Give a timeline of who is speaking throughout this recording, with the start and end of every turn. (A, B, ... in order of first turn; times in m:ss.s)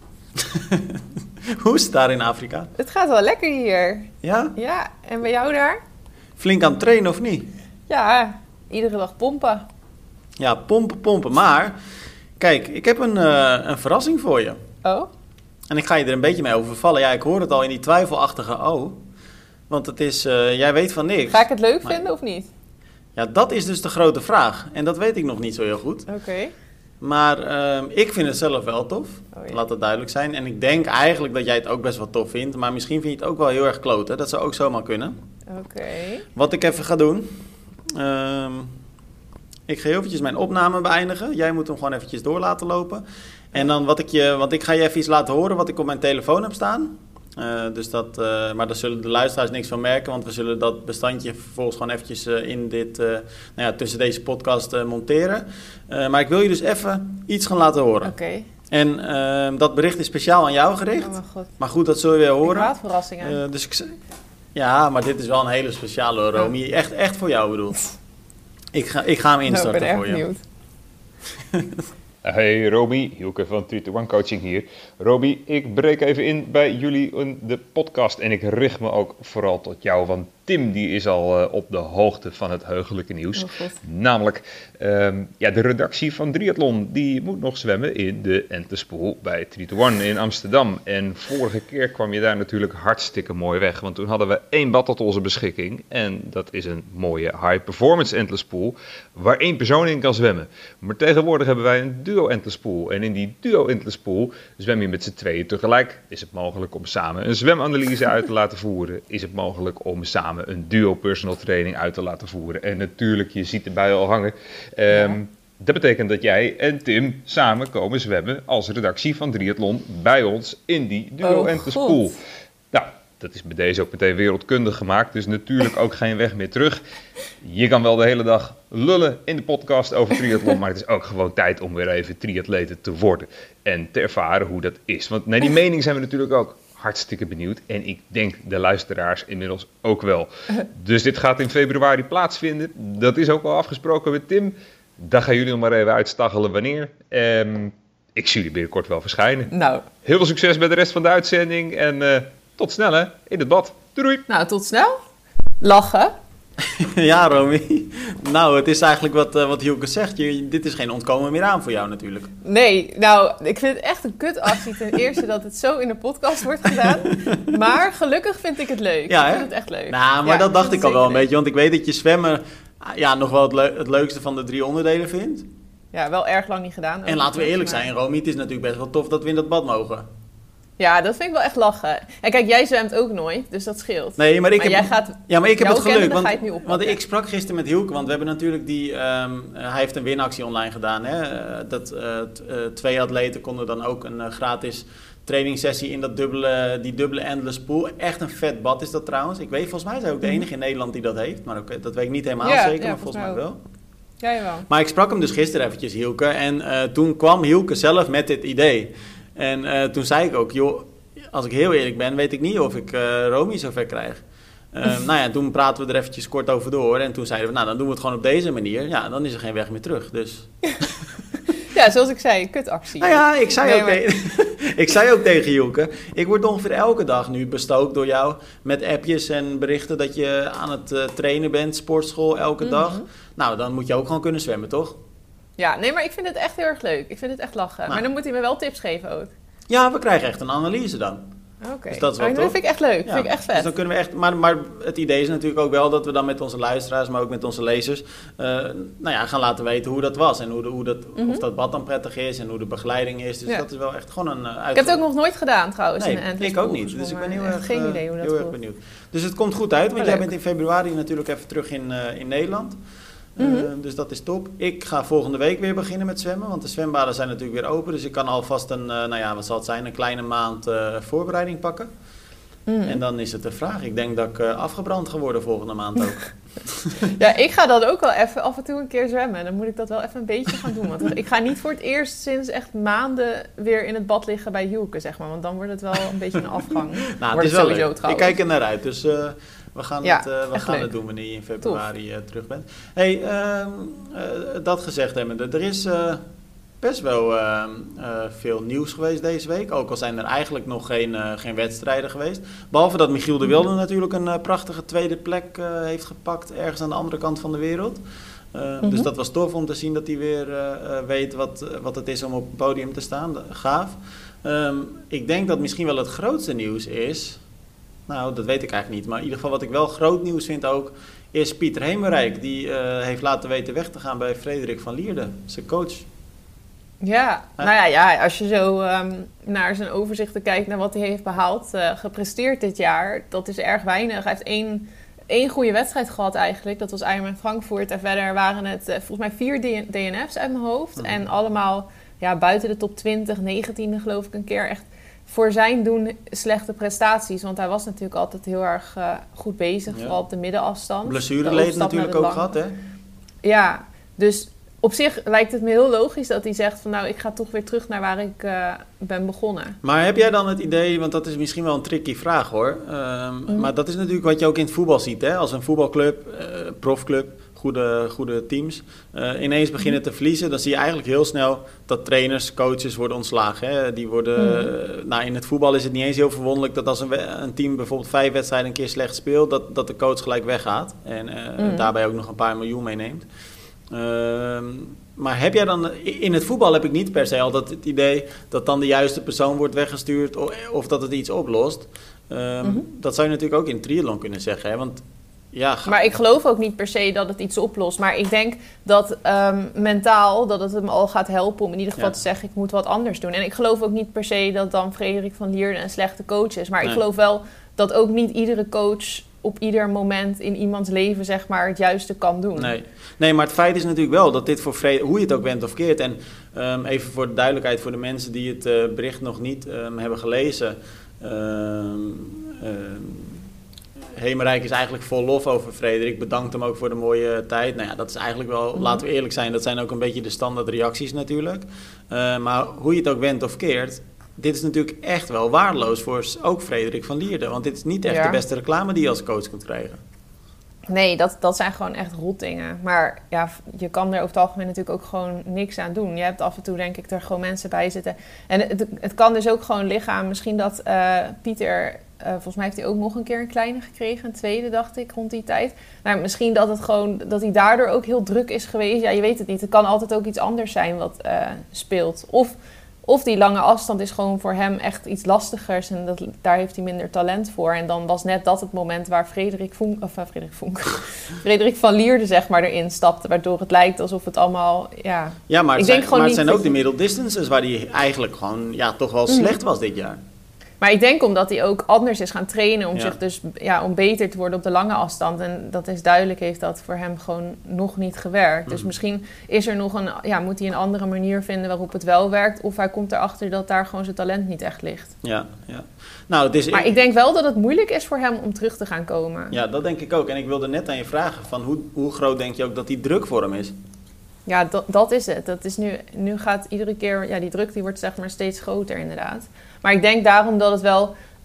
0:00.4-0:02.7 A
0:02.8-0:05.8 B
0:04.2-0:04.6 A
0:06.4-0:07.5 A
0:07.9-0:09.7 B
0:10.4-0:11.8 A
0:12.4-0:14.6 A
0:14.8-0:15.1 B
0:15.7-0:19.0 A
0:19.7-0:22.0 A
0:21.3-0:22.5 B
0:23.2-0:26.1 A
0:26.1-0:26.5 B
0:27.0-0:35.2 A
0:29.3-0:29.6 B
0:35.5-0:36.2 B
0:36.4-0:37.3 A
0:37.9-0:38.7 A
0:39.7-0:58.1 A
0:58.0-0:58.5 B
0:58.7-1:04.0 A
1:01.0-1:01.5 B
1:02.4-1:03.4 B
1:04.6-1:07.9 A
1:08.7-1:10.2 A
1:09.5-1:10.4 B
1:11.5-1:11.8 A
1:12.2-2:02.2 C
1:23.4-1:23.8 B
1:54.9-1:55.2 B
2:01.2-2:02.2 B
2:02.7-2:06.8 C
2:07.4-2:29.5 C
2:29.5-2:29.8 B
2:30.0-2:34.2 C
2:34.3-2:35.0 B
2:35.6-2:36.1 B
2:36.6-2:42.3 A
2:42.4-2:51.3 B
2:46.8-2:47.5 A
2:49.1-2:55.5 A
2:55.9-2:57.9 B
2:57.1-3:00.1 A
3:00.8-3:07.0 B
3:04.2-3:23.6 A
3:22.4-3:23.4 B
3:24.2-3:24.7 B
3:24.7-3:34.2 A
3:34.7-3:41.0 A
3:41.6-3:44.0 B
3:43.0-3:55.0 A
3:52.6-3:53.0 B
3:55.6-3:59.3 B
3:59.7-4:01.2 A
4:01.6-4:03.7 B
4:01.9-4:15.0 A
4:11.2-4:11.4 B
4:14.7-4:18.6 B
4:16.0-4:22.8 A
4:20.0-4:20.3 B
4:23.4-4:31.9 A
4:23.4-4:23.7 B
4:32.7-4:33.0 B
4:32.9-4:37.1 A
4:37.1-4:48.4 B
4:47.1-4:56.2 A
4:50.0-4:50.9 B
4:56.8-5:08.0 A
5:08.5-5:17.4 A
5:08.8-5:09.1 B
5:18.1-5:26.1 A
5:27.0-5:52.5 B
5:49.9-5:50.2 A
5:51.0-5:52.8 A
5:53.4-5:59.8 B
5:59.8-6:23.3 A
6:14.4-6:14.7 B
6:21.6-6:21.9 B
6:23.9-6:36.1 A
6:35.9-6:52.7 B
6:52.6-7:03.4 A
7:04.2-7:20.0 A
7:08.8-7:09.0 B
7:18.0-7:18.4 B
7:20.9-7:56.8 B
7:55.5-8:00.2 A
7:59.3-7:59.6 B
8:00.8-8:15.2 B
8:15.2-8:17.0 A
8:16.7-8:19.6 B
8:19.5-8:23.8 A
8:24.5-8:31.1 B